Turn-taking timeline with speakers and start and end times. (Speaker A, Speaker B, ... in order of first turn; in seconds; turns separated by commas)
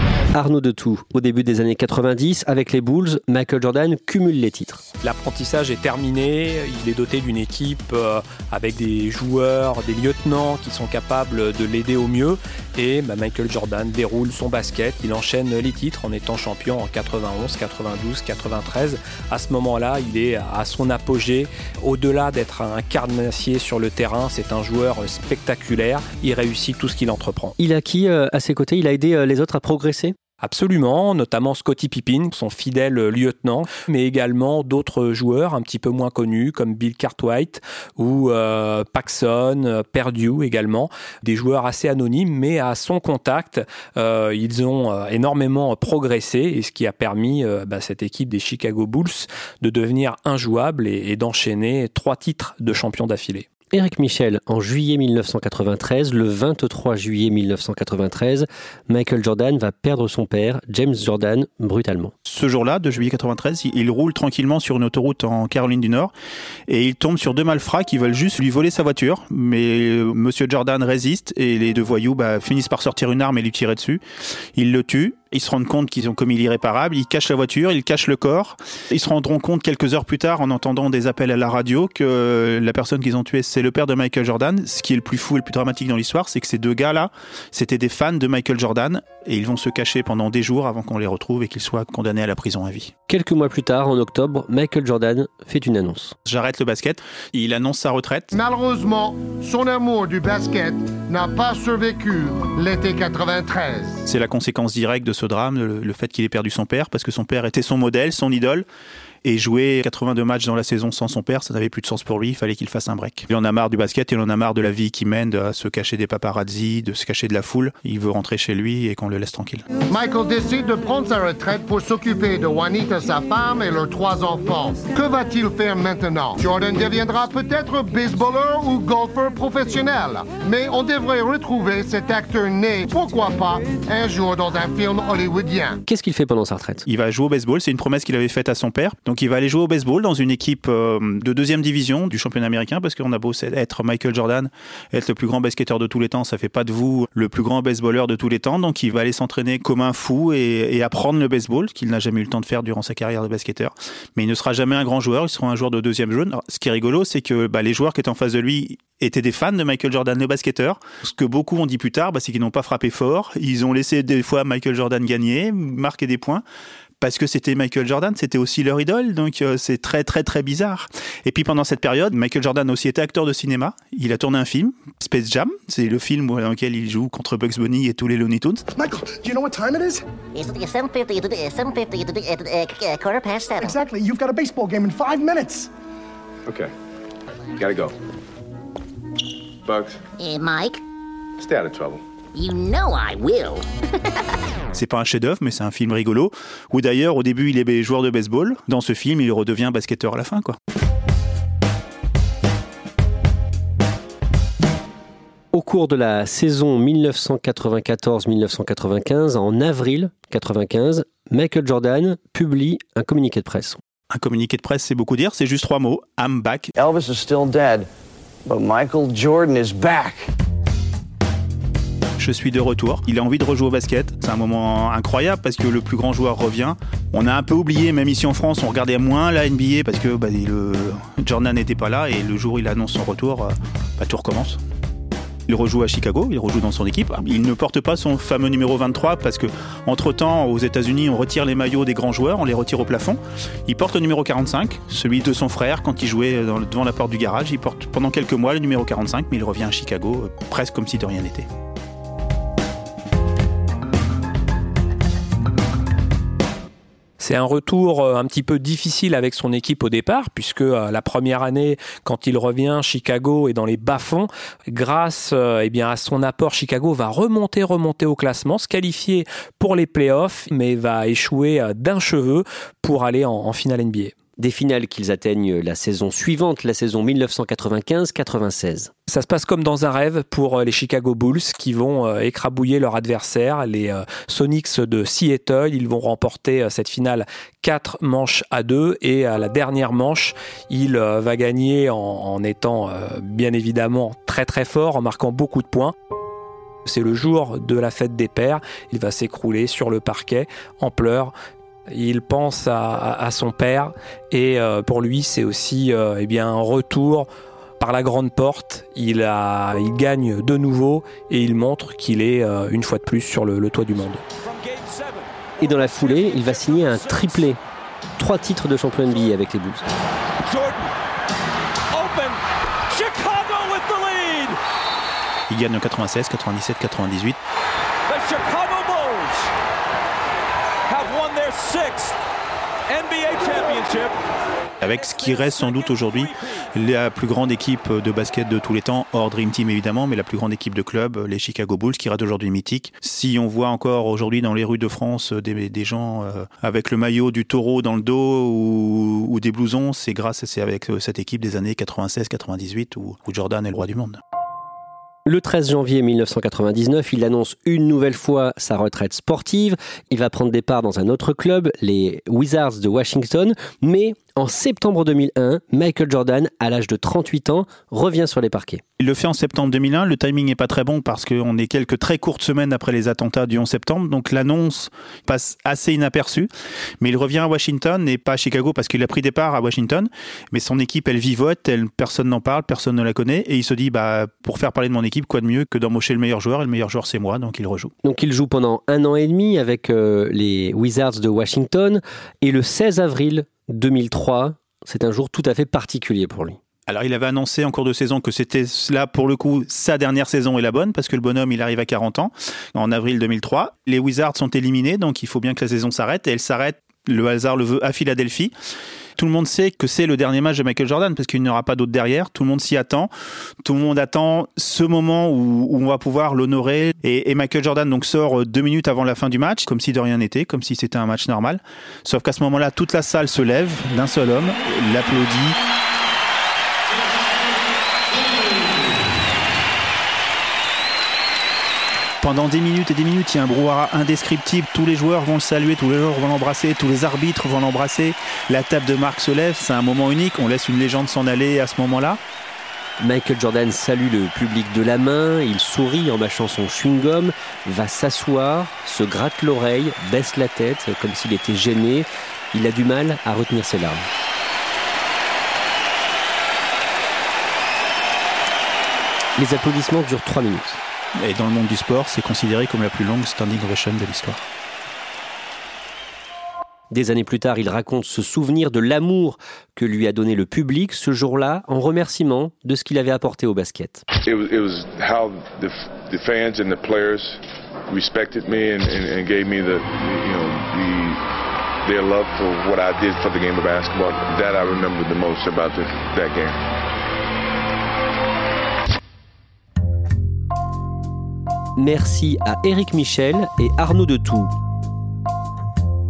Speaker A: 0.3-4.8, Speaker B: 5.0-27.6, Speaker A: 27.6-30.1, Speaker B: 30.4-53.5, Speaker A: 53.7-62.1, Speaker C: 62.2-66.1, Speaker C: 66.7-74.0, Speaker C: 74.5-92.9, Speaker A: 93.1-96.1, Speaker C: 96.2-98.3, Speaker D: 98.3-104.0, Speaker C: 104.0-108.7, Speaker C: 109.2-119.6, Speaker D: 119.9-135.8, Speaker A: 135.8-136.8, Speaker C: 136.8-166.4, Speaker C: 167.0-178.6, Speaker E: 178.7-180.0, Speaker F: 180.3-183.8, Speaker E: 183.6-185.7, Speaker G: 187.6-187.9, Speaker G: 189.7-190.0, Speaker F: 190.2-190.8, Speaker G: 191.4-192.0, Speaker F: 192.3-193.6, Speaker C: 194.7-200.6, Speaker A: 205.5-213.8, Speaker C: 214.1-216.7, Speaker H: 216.8-217.9, Speaker H: 218.5-220.3, Speaker C: 222.2-234.6, Speaker C: 235.5-251.5, Speaker B: 257.2-274.1, Speaker A: 274.4-278.9, Speaker B: 279.1-295.9, Speaker B: 296.8-301.3, Speaker B: 301.9-307.3, Speaker B: 307.8-314.2, Speaker I: 314.5-315.3, Speaker A: 315.6-317.6, Speaker A: 318.2-319.8, Speaker I: 320.5-320.9, Speaker I: 321.9-322.4, Speaker I: 322.9-324.6, Speaker C: 325.5-327.4, Speaker I: 328.1-329.5, Speaker I: 330.9-332.2, Speaker I: 332.9-334.2, Speaker C: 334.8-354.2, Speaker A: 355.2-368.8, Speaker C: 369.0-376.5, Speaker C: 377.0-387.9, Speaker A: 388.0-396.6, Speaker C: 396.9-408.5, Speaker C: 409.2-413.1, Speaker C: 413.6-425.6, Speaker C: 432.2-442.2, Speaker A: 443.0-454.0, Speaker A: 459.4-460.8, Speaker C: 461.2-464.4, Speaker A: 466.9-474.0, Speaker G: 474.2-481.2, Speaker G: 481.8-486.6, Speaker A: 491.8-494.5